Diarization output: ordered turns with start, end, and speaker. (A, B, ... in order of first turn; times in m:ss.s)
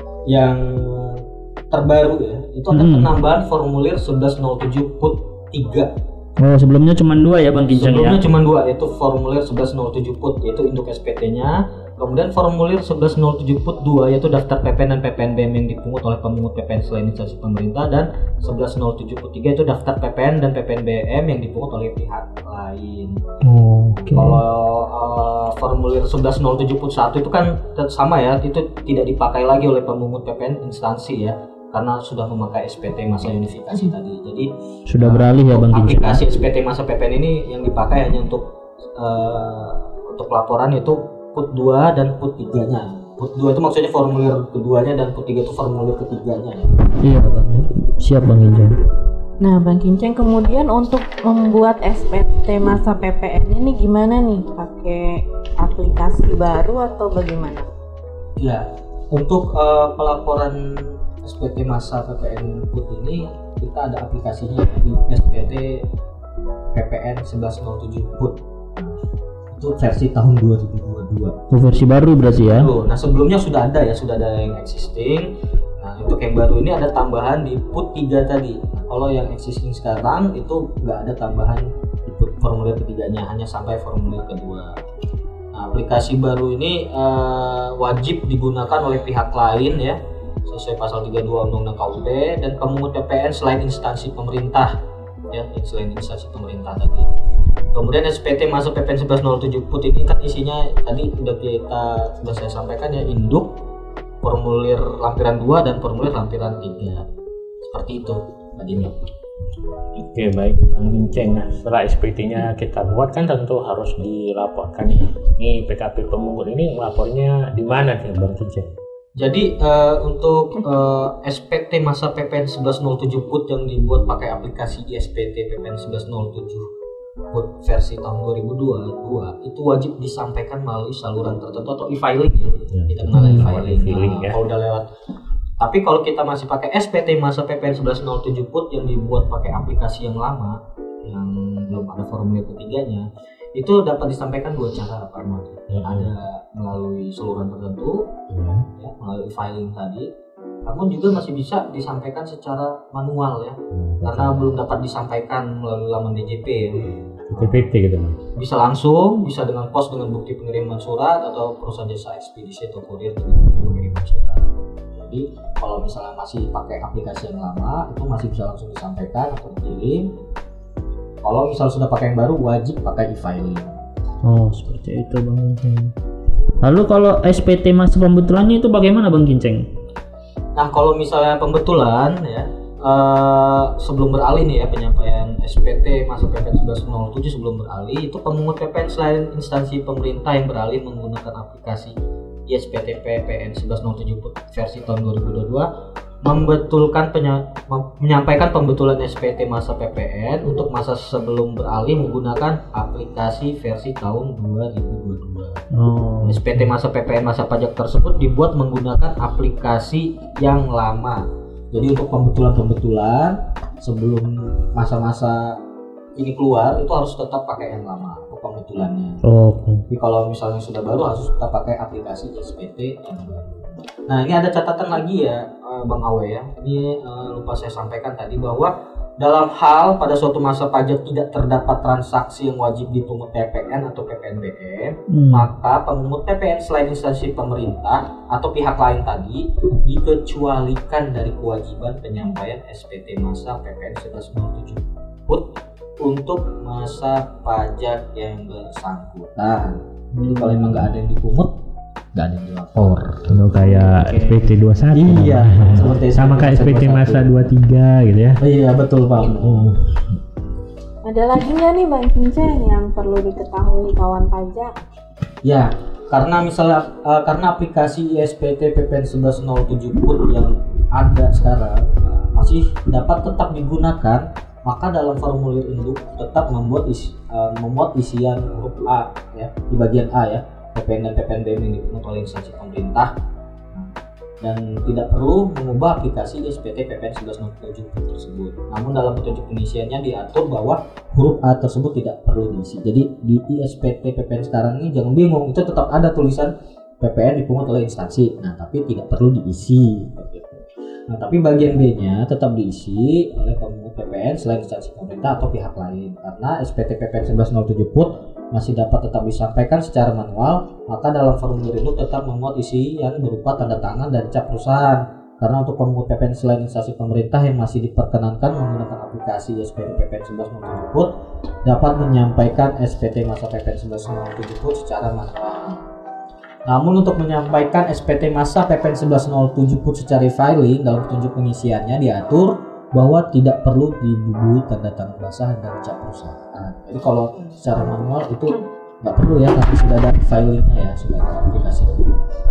0:00.3-0:05.9 A
0:02.7-0:03.1 B
0:06.4-0:08.2 B
0:07.7-0:23.2 A
0:23.4-0:24.4 B
0:24.1-0:34.5 A
0:34.9-0:36.2 B
0:35.0-0:46.6 A
0:47.0-0:48.8 B
0:49.4-0:57.6 C
0:58.4-1:05.8 A
1:06.7-1:09.0 A
1:09.5-1:11.3 A
1:11.5-1:12.7 B
1:12.4-1:24.8 A
1:25.5-1:34.7 A
1:35.3-1:37.1 A
1:37.7-1:43.5 A
1:44.2-1:47.0 A
1:47.6-1:48.9 A
1:50.0-1:58.7 D
1:59.2-2:06.6 A
2:07.3-2:14.8 A
2:12.7-2:14.4 D
2:13.1-2:13.5 B
2:15.6-2:28.1 A
2:25.7-2:26.1 D
2:28.3-2:28.6 D
2:28.8-2:30.1 A
2:30.6-2:37.7 A
2:33.7-2:34.6 D
2:37.2-2:38.2 D
2:38.4-2:50.0 A
2:51.2-2:53.7 A
2:54.2-2:55.9 B
2:56.6-2:59.6 B
3:00.6-3:12.0 A
3:12.5-3:15.7 A
3:16.2-3:25.6 A
3:25.7-3:26.6 B
3:26.2-3:35.6 A
3:36.2-3:39.2 A
3:39.2-3:39.8 B
3:39.9-4:11.5 A
3:55.1-3:55.5 B
4:10.2-4:10.8 B
4:12.1-4:13.4 A
4:13.3-4:18.4 D
4:13.6-4:14.4 B
4:14.9-4:17.3 A
4:18.4-4:19.7 A
4:19.3-4:20.2 D
4:21.0-4:24.7 C
4:25.4-4:43.1 A
4:43.7-5:21.1 A
5:21.6-5:25.8 A
5:26.7-5:42.1 A